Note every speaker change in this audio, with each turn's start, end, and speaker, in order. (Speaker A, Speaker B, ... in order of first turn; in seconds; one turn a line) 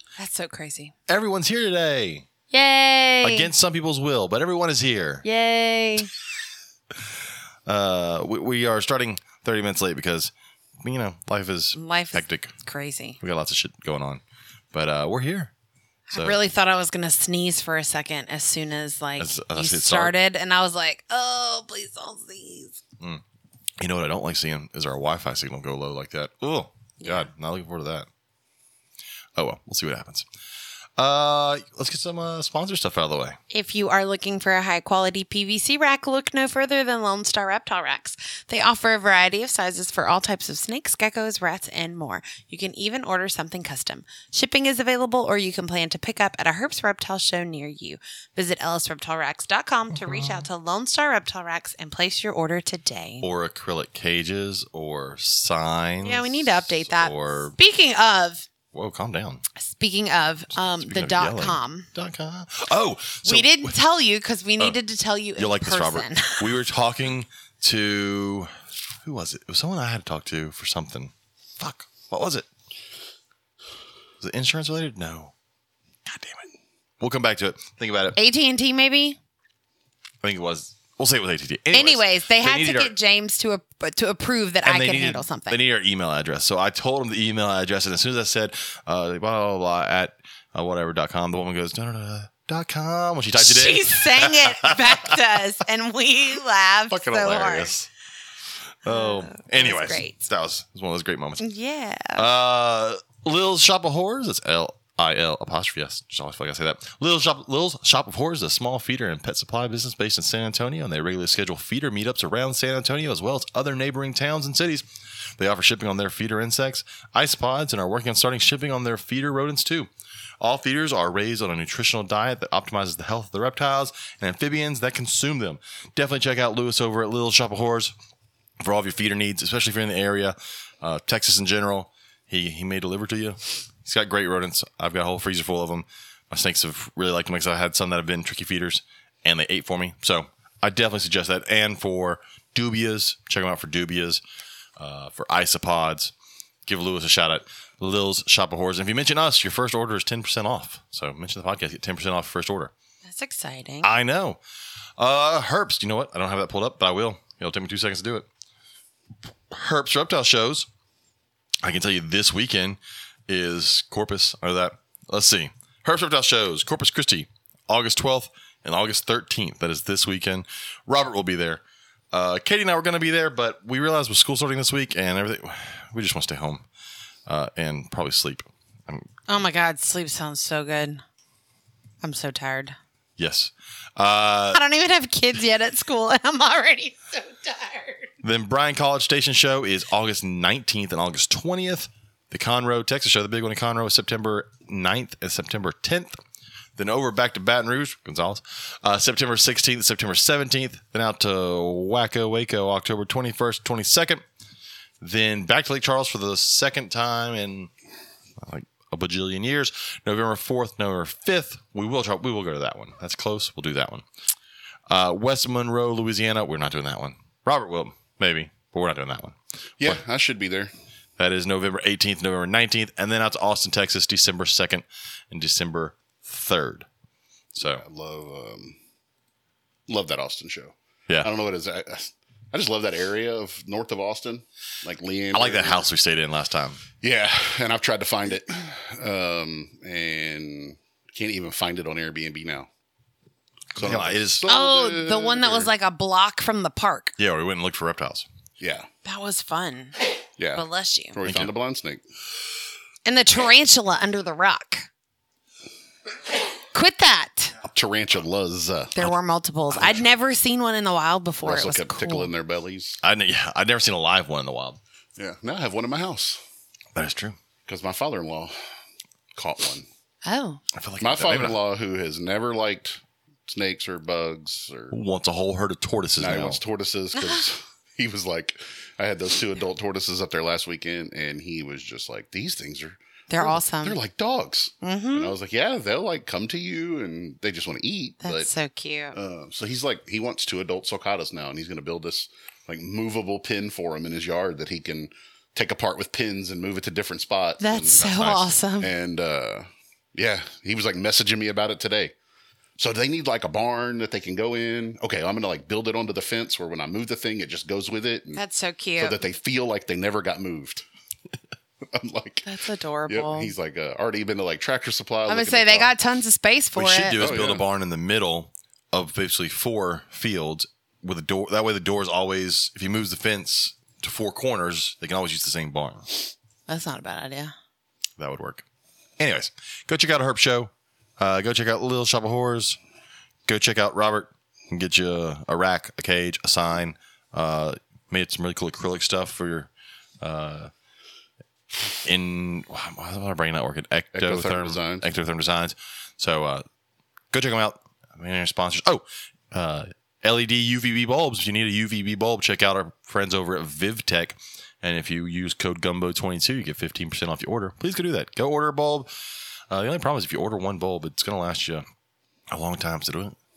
Speaker A: 0.2-0.9
Speaker B: 1.1-2.3
Speaker A: 2.5-3.5
Speaker B: 3.2-5.2
Speaker A: 5.2-6.1
Speaker B: 7.7-12.5
Speaker A: 11.7-13.2
Speaker B: 13.2-14.2
Speaker B: 14.7-15.5
Speaker A: 16.1-22.8
Speaker B: 16.1-16.4
Speaker B: 19.2-20.1
Speaker B: 23.8-28.1
Speaker A: 27.0-27.3
Speaker B: 29.4-30.3
Speaker B: 31.0-33.4
Speaker A: 33.5-53.3
Speaker B: 49.9-50.5
Speaker B: 53.2-57.5
Speaker A: 56.0-58.5
Speaker B: 58.7-59.4
Speaker A: 59.6-61.9
Speaker B: 60.8-63.7
Speaker A: 63.2-66.5
Speaker B: 65.4-68.5
Speaker B: 69.0-72.5
Speaker B: 74.2-75.3
Speaker B: 76.0-76.4
Speaker B: 77.0-78.2
Speaker A: 78.2-79.2
Speaker B: 80.2-82.9
Speaker A: 81.7-85.6
Speaker B: 84.6-95.4
Speaker A: 93.3-97.7
Speaker B: 96.9-97.9
Speaker B: 98.8-101.4
Speaker A: 98.8-100.1
Speaker A: 101.4-102.2
Speaker B: 102.1-114.9
Speaker B: 115.4-119.9
Speaker B: 120.4-127.9
Speaker B: 128.6-144.2
Speaker B: 144.8-146.1
Speaker B: 146.7-152.7
Speaker A: 153.0-153.9
Speaker B: 153.8-154.4
Speaker B: 155.0-158.3
Speaker B: 159.5-160.7
Speaker B: 161.6-176.6
Speaker B: 177.3-179.1
Speaker A: 179.3-181.0
Speaker A: 182.0-182.8
Speaker B: 183.2-184.6
Speaker A: 184.5-188.1
Speaker B: 188.2-196.2
Speaker B: 196.8-204.2
Speaker B: 205.0-207.7
Speaker B: 208.4-214.0
Speaker B: 214.9-220.0
Speaker C: 219.8-220.7
Speaker B: 221.2-226.9
Speaker B: 227.6-227.8
Speaker C: 227.6-228.8
Speaker C: 229.9-235.8
Speaker B: 235.3-236.8
Speaker C: 237.0-242.7
Speaker B: 243.7-244.4
Speaker C: 243.7-245.7
Speaker A: 244.5-247.1
Speaker B: 247.2-248.3
Speaker C: 248.6-248.9
Speaker A: 249.0-250.0
Speaker C: 250.4-252.0
Speaker A: 250.5-251.2
Speaker B: 251.2-251.5
Speaker A: 253.0-254.9
Speaker A: 256.7-257.5
Speaker C: 257.6-259.0
Speaker A: 258.9-262.3
Speaker C: 261.4-263.0
Speaker B: 263.0-264.8
Speaker C: 265.2-266.4
Speaker B: 266.9-267.4
Speaker C: 267.6-268.5
Speaker C: 269.3-269.9
Speaker A: 270.2-270.6
Speaker B: 270.7-271.6
Speaker C: 271.0-274.9
Speaker B: 274.9-276.6
Speaker C: 276.2-288.5
Speaker A: 277.2-277.4
Speaker A: 283.3-284.0
Speaker A: 284.8-285.3
Speaker A: 288.2-289.1
Speaker C: 289.1-298.1
Speaker A: 297.6-298.9
Speaker B: 298.0-298.5
Speaker C: 298.8-302.1
Speaker C: 302.8-308.4
Speaker A: 308.3-309.2
Speaker C: 309.0-310.8
Speaker C: 311.9-312.4
Speaker A: 312.4-313.5
Speaker C: 313.1-315.9
Speaker A: 315.3-317.2
Speaker B: 316.8-326.1
Speaker C: 317.2-317.6
Speaker A: 326.7-327.5
Speaker B: 328.2-328.6
Speaker B: 329.2-332.8
Speaker B: 333.4-339.7
Speaker B: 340.2-340.7
Speaker B: 342.0-346.6
Speaker C: 344.1-345.0
Speaker B: 347.3-359.1
Speaker B: 359.7-361.8
Speaker B: 362.5-363.4